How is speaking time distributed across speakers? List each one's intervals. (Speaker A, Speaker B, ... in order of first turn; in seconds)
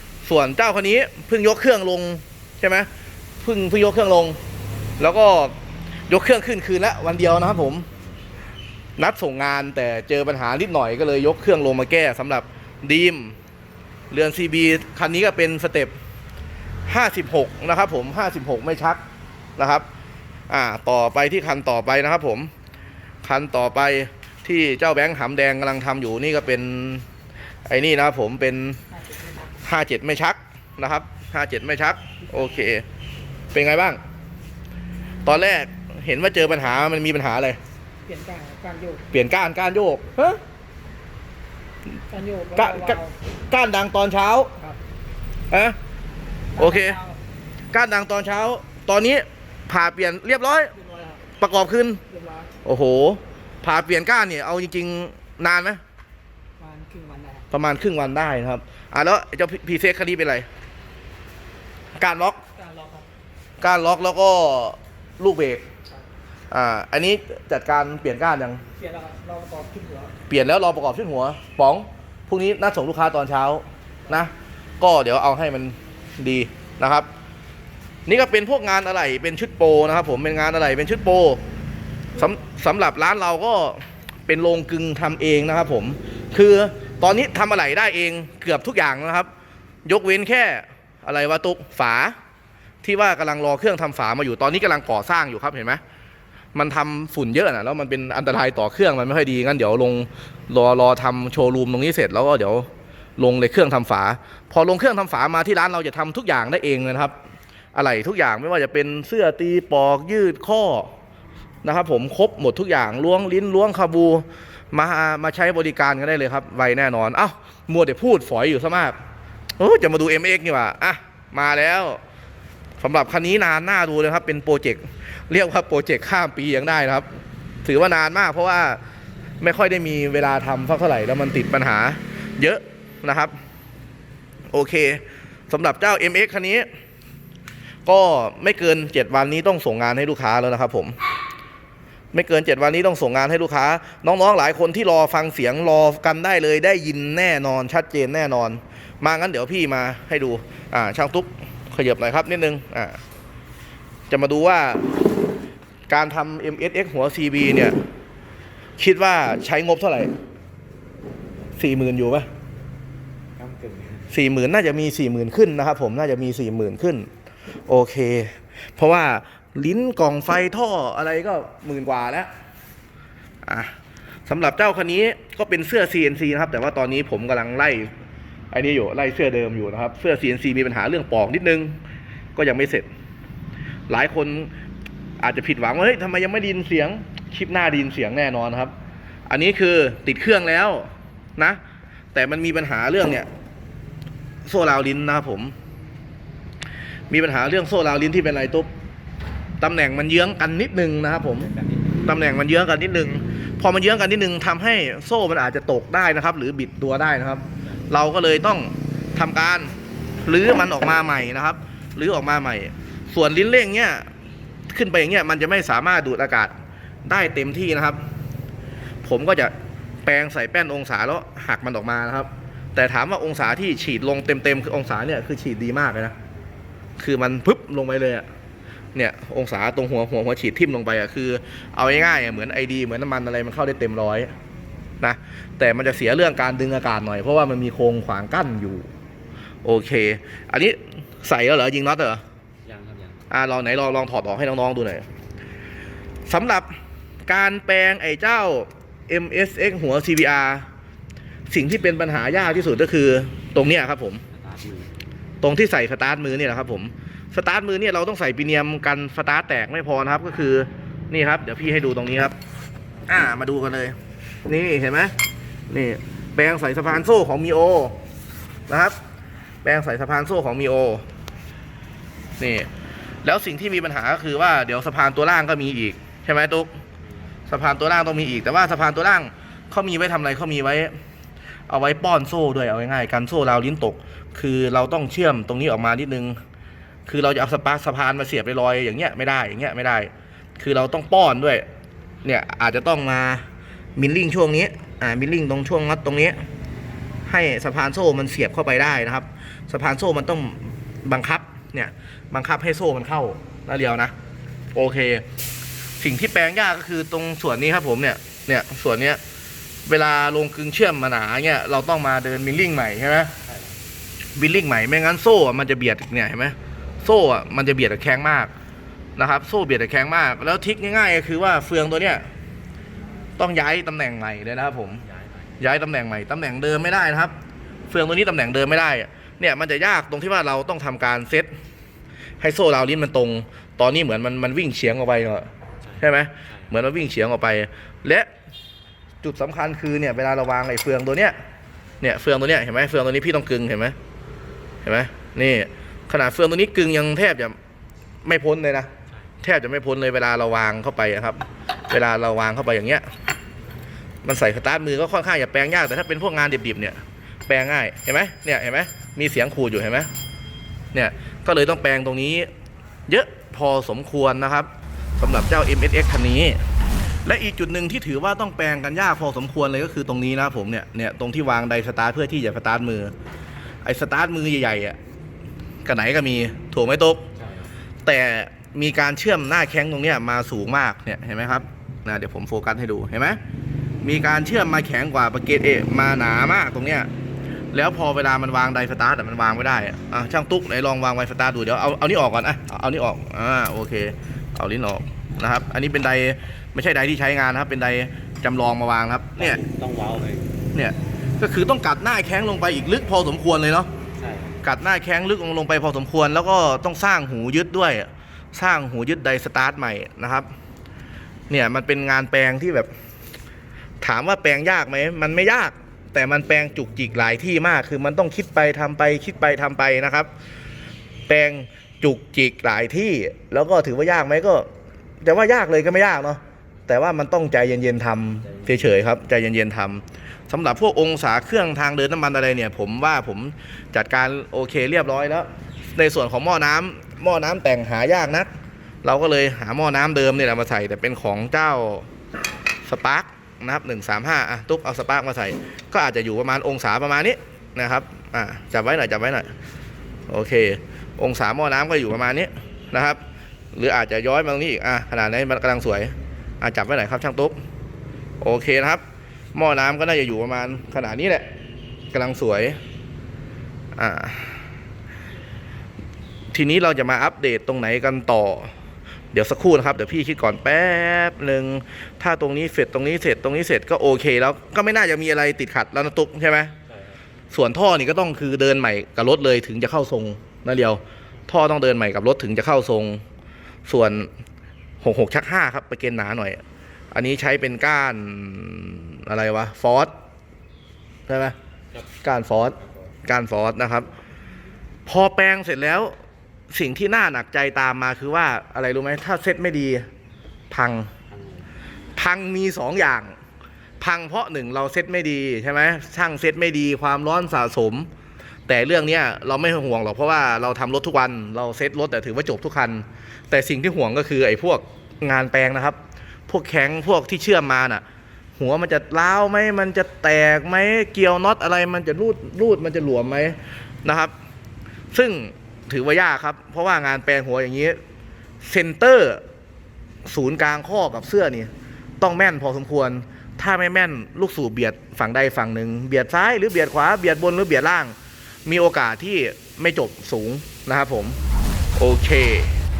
Speaker A: 0.2-2.9, 3.4-4.4, 5.0-5.5, 6.1-7.8, 9.0-13.3, 14.1-15.9, 16.9-19.0, 19.6-19.8, 20.5-22.5, 23.2-27.1, 27.6-28.8, 29.6-32.8, 33.5-34.0, 35.2-37.6, 39.1-40.4, 42.5-44.5, 45.5-45.8, 46.5-47.0, 47.7-50.7, 51.4-52.0, 52.6-55.8, 57.5-60.5, 62.0-62.4, 63.6-65.6, 66.5-68.6, 70.3-77.1, 78.1-81.4, 82.1-89.3, 89.8-92.1, 92.8-95.8, 96.5-107.1, 107.7-110.9, 111.6-119.0, 119.6-122.0, 122.8-127.1, 127.6-128.8, 129.4-133.3, 134.5-136.7, 137.8-141.0, 142.1-153.0, 154.1-154.8, 155.9-157.8, 158.8-160.1, 161.6-162.3, 164.1-167.1, 167.7-172.3, 173.4-173.7, 174.2-177.9, 178.5-181.8, 182.3-182.9, 183.9-184.5, 185.2-188.7, 189.3-191.6, 192.1-193.3, 194.4-195.5, 197.1-198.7, 199.6-201.5, 202.0-209.7, 210.2-214.1, 214.7-216.5, 217.0-218.0, 219.0-219.5, 220.0-226.1, 227.0-228.2, 228.9-234.3, 235.0-238.9, 239.6-242.2, 243.3-245.1, 246.3-246.7, 247.3-250.7, 251.5-254.2, 255.4-262.3, 263.1-263.9, 264.5-265.1, 265.7-267.9, 268.7-268.9, 269.6-271.0, 272.4-272.7, 273.2-276.8, 277.5-280.9, 281.7-286.4, 287.1-291.6, 292.2-296.4, 297.2-304.1, 304.7-305.2, 306.0-309.2, 309.9-313.3, 314.4-318.5, 319.1-322.2, 323.4-325.0, 325.6-327.3, 327.9-331.5, 332.4-338.3, 339.2-341.4, 342.0-343.9, 344.8-347.6, 348.2-348.9, 349.4-353.1, 354.2-360.1, 360.9-362.5, 363.1-366.6, 367.2-373.1, 373.8-375.0, 375.8-377.3, 378.0-383.4, 384.0-387.1, 387.7-399.6, 400.7-403.9, 404.6-410.5, 411.5-412.9, 414.0-420.3, 421.3-424.7, 425.2-438.5, 439.0-442.1, 442.9-449.5, 450.3-453.2, 453.7-457.6, 458.4-459.0, 459.5-461.4, 462.1-462.8, 463.9-464.6, 466.5-468.7, 469.3-476.7, 477.5-483.2, 483.9-484.3, 485.0-486.6, 487.1-490.1, 491.3-491.6, 492.2-494.1, 495.1-496.1, 496.7-500.1, 500.7-501.1, 502.1-503.4, 504.0-508.1, 508.7-518.0, 518.6-524.3, 525.1-528.0, 528.6-529.4, 530.2-538.1, 538.6-541.4, 542.0-542.7
Speaker B: 38.0-39.1, 42.1-43.1, 46.6-47.1, 50.8-51.2, 52.1-52.5, 56.6-57.4, 62.6-63.0, 68.8-70.1
Speaker C: 163.4-164.1, 201.5-201.9, 242.6-243.2, 254.3-254.9, 313.4-313.8, 335.8-336.7, 377.4-377.7, 399.4-400.5, 404.2-404.6, 476.9-477.1, 501.3-501.7